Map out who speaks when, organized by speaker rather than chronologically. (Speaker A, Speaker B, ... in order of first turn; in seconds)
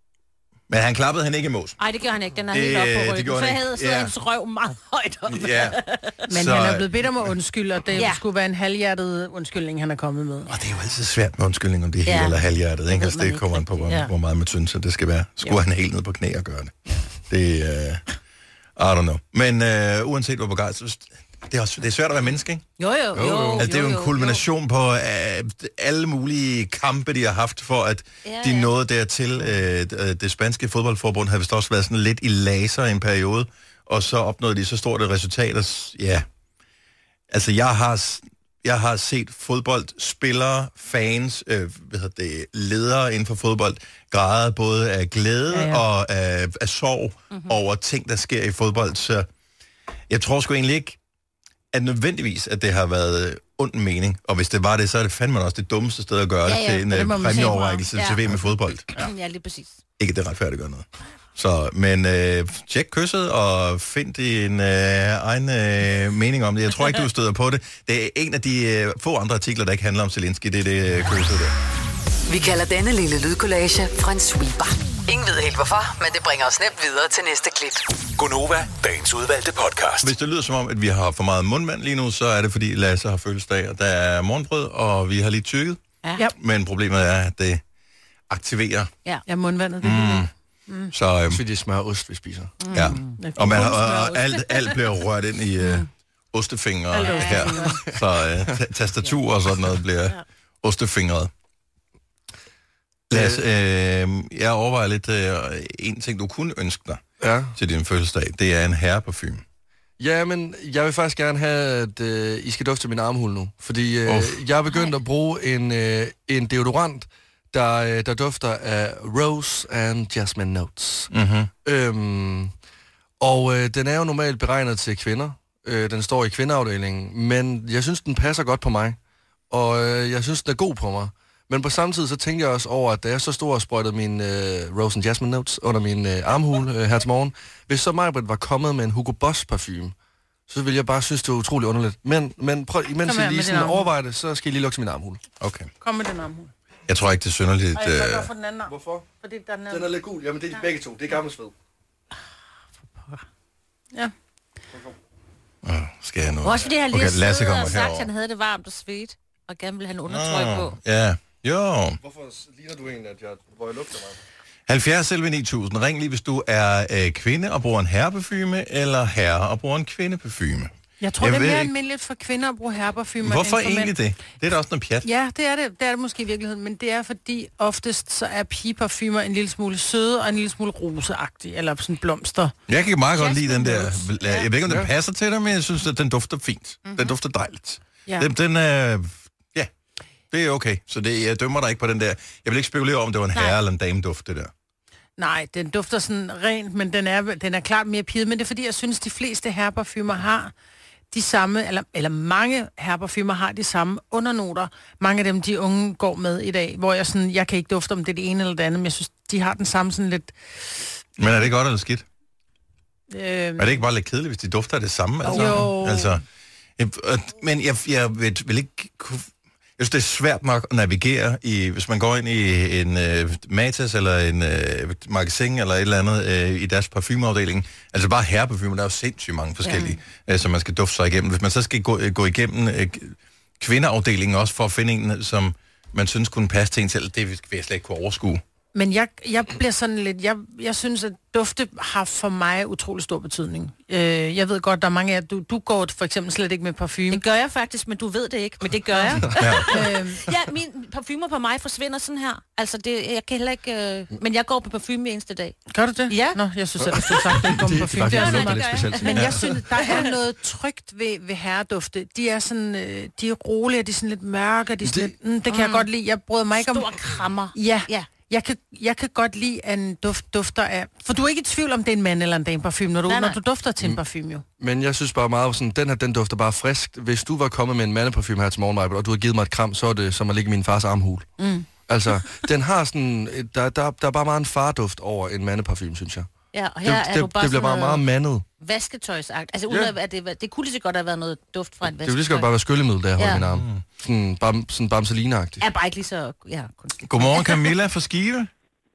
Speaker A: 0.7-1.8, 2.5-4.1, 5.3-7.0, 10.5-18.0, 18.8-22.6, 23.6-36.2, 37.3-49.3, 50.1-51.0, 51.7-59.1, 60.0-71.5, 80.0-85.8, 86.4-87.6, 88.3-88.9, 89.8-90.3, 90.9-91.4, 92.7-101.3, 103.1-107.0, 107.5-109.4, 114.0-114.4, 121.1-121.5, 145.4-145.7, 146.9-148.3, 155.6-158.1, 160.1-162.0, 164.7-171.7, 173.2-175.1, 182.7-189.7, 190.3-194.5, 211.2-212.0, 213.6-216.2, 216.8-238.4, 249.3-249.7, 293.5-293.8, 297.1-298.5
Speaker B: 1.8-6.2, 7.9-8.2, 12.0-12.4, 12.9-14.1, 22.8-24.4, 28.2-28.7, 56.5-58.3, 58.9-59.8, 92.6-93.2, 93.7-94.7, 97.0-97.7, 156.4-160.8, 183.2-184.5, 186.8-187.1, 229.6-229.9, 247.1-255.6, 256.1-256.4, 258.1-260.1, 265.5-265.9, 266.6-268.1, 273.1-273.4, 286.5-288.0, 288.6-292.5, 293.1-293.4, 295.6-297.7
Speaker C: 6.3-10.5, 45.5-45.8, 57.1-57.6, 89.2-90.9, 93.1-94.2, 96.9-97.8, 143.0-143.9, 145.8-146.5, 147.7-149.9, 171.0-173.9, 175.0-182.5, 195.2-200.5, 201.1-210.8, 213.1-213.8, 215.3-216.2, 238.7-247.2, 248.9-250.2, 255.7-266.9, 267.5-274.4, 281.4-281.6
Speaker D: 23.1-23.6, 91.3-92.5, 97.7-98.0, 103.1-103.4, 107.2-107.5, 110.0-121.1, 121.6-122.5, 123.2-129.0, 129.5-139.9, 140.5-145.2, 148.7-149.1, 149.7-151.5, 162.0-164.2, 184.6-184.9, 256.8-259.4, 264.8-265.1, 274.6-281.3, 281.9-286.3, 286.8-288.4, 292.0-295.6
Speaker E: 72.3-77.8
Speaker F: 78.2-80.1